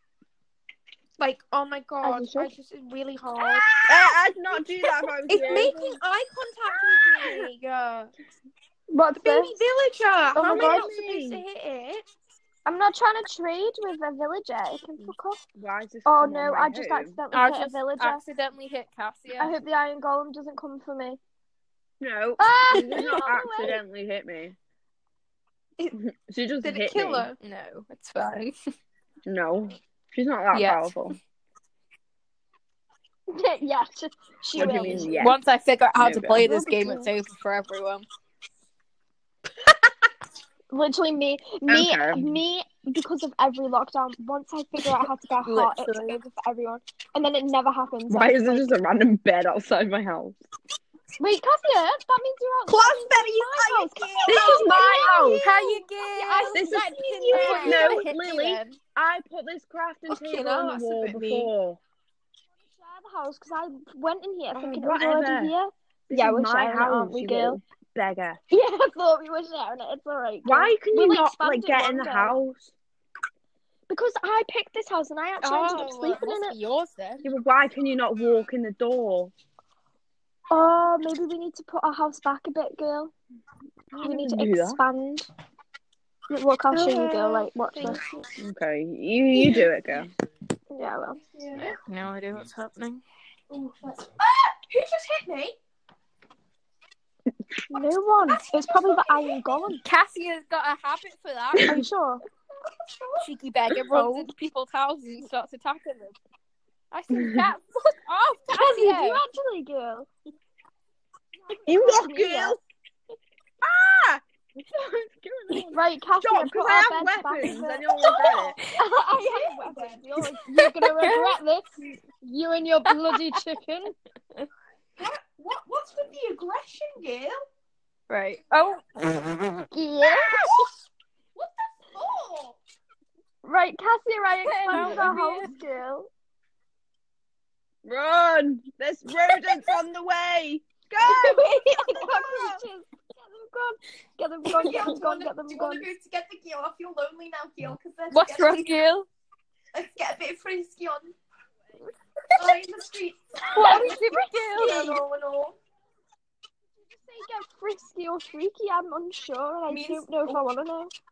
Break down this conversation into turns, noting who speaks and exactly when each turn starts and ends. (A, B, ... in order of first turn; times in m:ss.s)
0:01.2-0:03.7 A
0:02.0-0:02.5 B
0:03.9-0:06.0 C
0:05.3-0:08.1 A
0:08.9-0:09.6 B
0:09.2-0:12.0 A
0:10.4-0:11.4 C
0:10.4-0:10.8 B
0:12.6-0:15.4 B
0:15.0-0:17.2 C
0:16.0-0:18.2 B
0:17.3-0:19.6 D
0:19.3-0:21.2 B
0:22.0-0:24.6 C
0:22.4-0:23.8 B
0:25.9-0:27.3 C
0:26.6-0:27.4 A
0:27.4-0:28.6 D
0:29.2-0:31.2 C
0:30.5-0:31.1 D
0:33.3-0:35.2 B
0:34.5-0:35.4 C
0:34.6-0:38.0 D
0:36.0-0:36.5 C
0:36.4-0:37.1 B
0:40.7-0:48.8 B
0:41.7-0:42.4 C
0:45.4-0:46.2 D
0:48.1-0:50.4 C
0:51.2-0:58.0 B
0:52.7-0:57.9 A
0:54.2-0:55.5 C
0:56.5-1:01.8 C
0:57.3-0:58.8 D
1:00.1-1:01.5 A
1:02.7-1:07.6 B
1:04.5-1:05.5 C
1:06.1-1:08.4 C
1:08.5-1:12.4 B
1:10.4-1:12.7 C
1:13.9-1:16.6 B
1:15.4-1:17.2 D
1:17.2-1:19.3 C
1:20.5-1:23.1 B
1:23.9-1:24.8 C
1:24.0-1:25.3 B
1:26.3-1:28.0 B
1:26.7-1:28.3 A
1:28.4-1:30.1 C
1:30.7-1:31.2 B
1:31.3-1:31.7 A
1:31.6-1:33.0 D
1:33.5-1:35.6 A
1:37.7-1:39.8 B
1:38.3-1:39.5 A
1:39.8-1:41.8 D
1:41.6-1:42.2 B
1:43.2-1:46.2 D
1:46.9-1:49.2 D
1:48.5-1:50.1 B
1:51.4-1:52.6 B
1:51.7-1:52.6 C
1:53.6-1:58.6 C
1:55.5-2:03.9 B
1:59.2-2:00.0 A
2:00.7-2:01.4 D
2:03.0-2:03.4 D
2:05.0-2:07.4 A
2:08.1-2:08.8 D
2:09.7-2:10.5 B
2:10.0-2:10.8 A
2:11.3-2:12.6 A
2:13.4-2:16.1 B
2:14.4-2:15.5 D
2:14.7-2:15.0 C
2:17.8-2:22.6 C
2:21.0-2:25.9 B
2:24.5-2:28.8 A
2:28.1-2:29.1 D
2:29.7-2:31.2 A
2:32.4-2:34.0 A
2:33.5-2:35.0 B
2:34.5-2:35.6 A
2:37.0-2:40.9 B
2:39.7-2:40.4 A